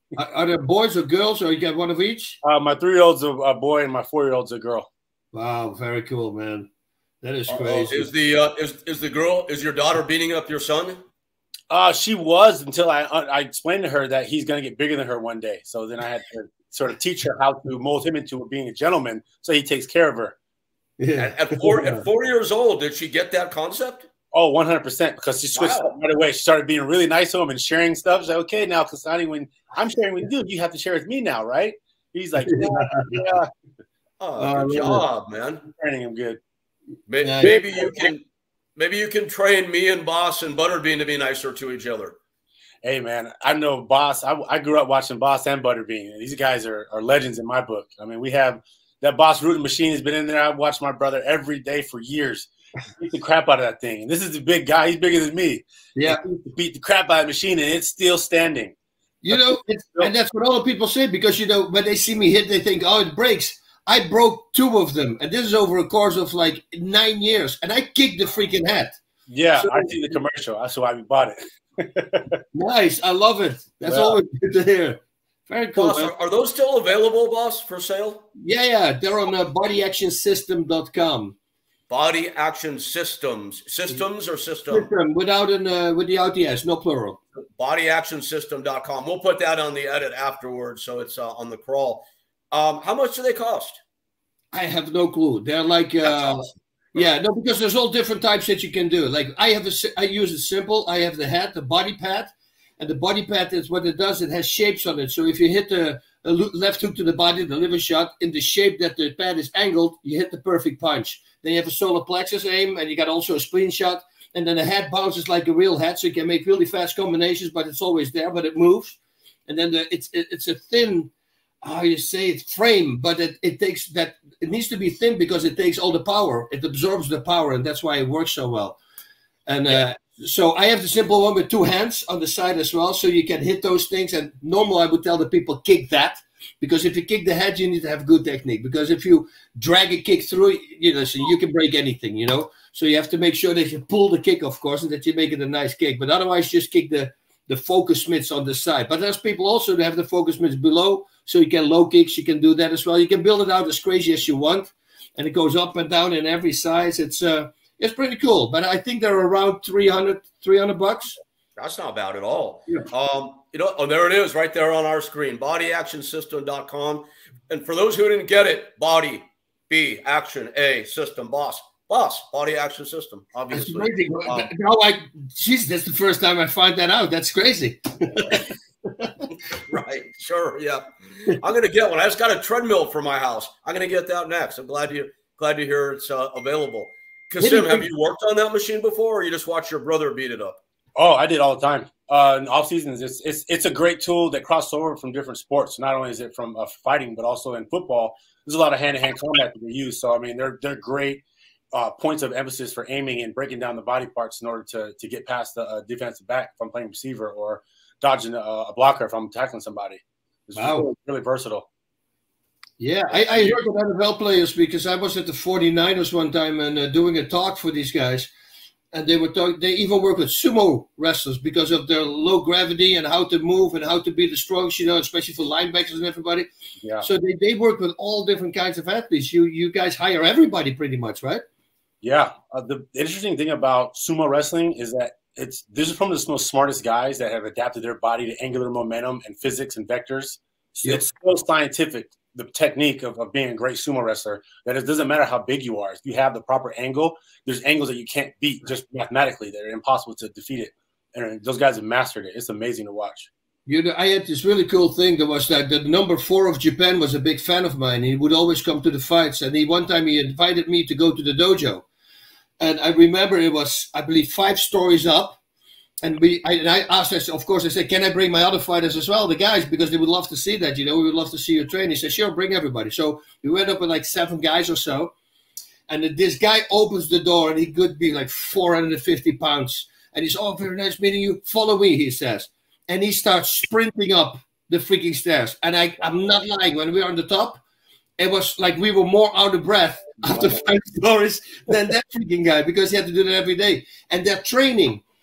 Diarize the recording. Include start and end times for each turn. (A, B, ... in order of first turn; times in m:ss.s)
0:00.2-0:02.4 A
0:02.4-0:04.9 B
0:05.3-0:06.7 A
0:07.2-0:08.1 A
0:07.5-0:11.0 C
0:11.7-0:20.3 B
0:21.0-0:22.0 A
0:21.2-0:24.1 C
0:24.3-0:33.5 B
0:25.5-0:25.9 C
0:32.4-0:33.2 A
0:34.2-0:35.6 C
0:34.4-0:35.0 A
0:35.6-0:36.4 B
0:37.1-0:38.2 C
0:37.2-0:38.0 A
0:38.8-0:42.2 C
0:42.8-0:58.7 B
0:55.9-0:56.2 A
0:59.2-1:09.0 A
0:59.3-1:00.1 B
1:09.3-1:12.4 B
1:09.6-1:10.1 A
1:12.5-1:16.1 A
1:13.8-1:14.2 B
1:15.7-1:18.3 C
1:18.4-1:21.4 A
1:21.9-1:24.9 C
1:24.7-1:27.2 A
1:27.4-1:33.8 C
1:34.5-2:01.1 A
1:36.0-1:37.0 C
2:01.6-2:08.8 A
2:09.5-2:41.2 A
2:41.6-2:54.5 C
2:53.5-2:59.2 A
2:59.7-3:10.6 C
3:07.4-3:07.9 A
3:11.0-3:31.7 B
3:30.6-3:30.9 A
3:32.8-3:38.3 A
3:38.9-3:46.5 A
3:46.8-3:47.1 B
3:47.0-3:51.4 A
3:52.0-4:13.3 B
4:13.6-4:21.8 A
4:22.6-4:25.4 A
4:26.0-4:35.1 A
4:35.9-4:47.6 A
4:48.2-4:55.0 A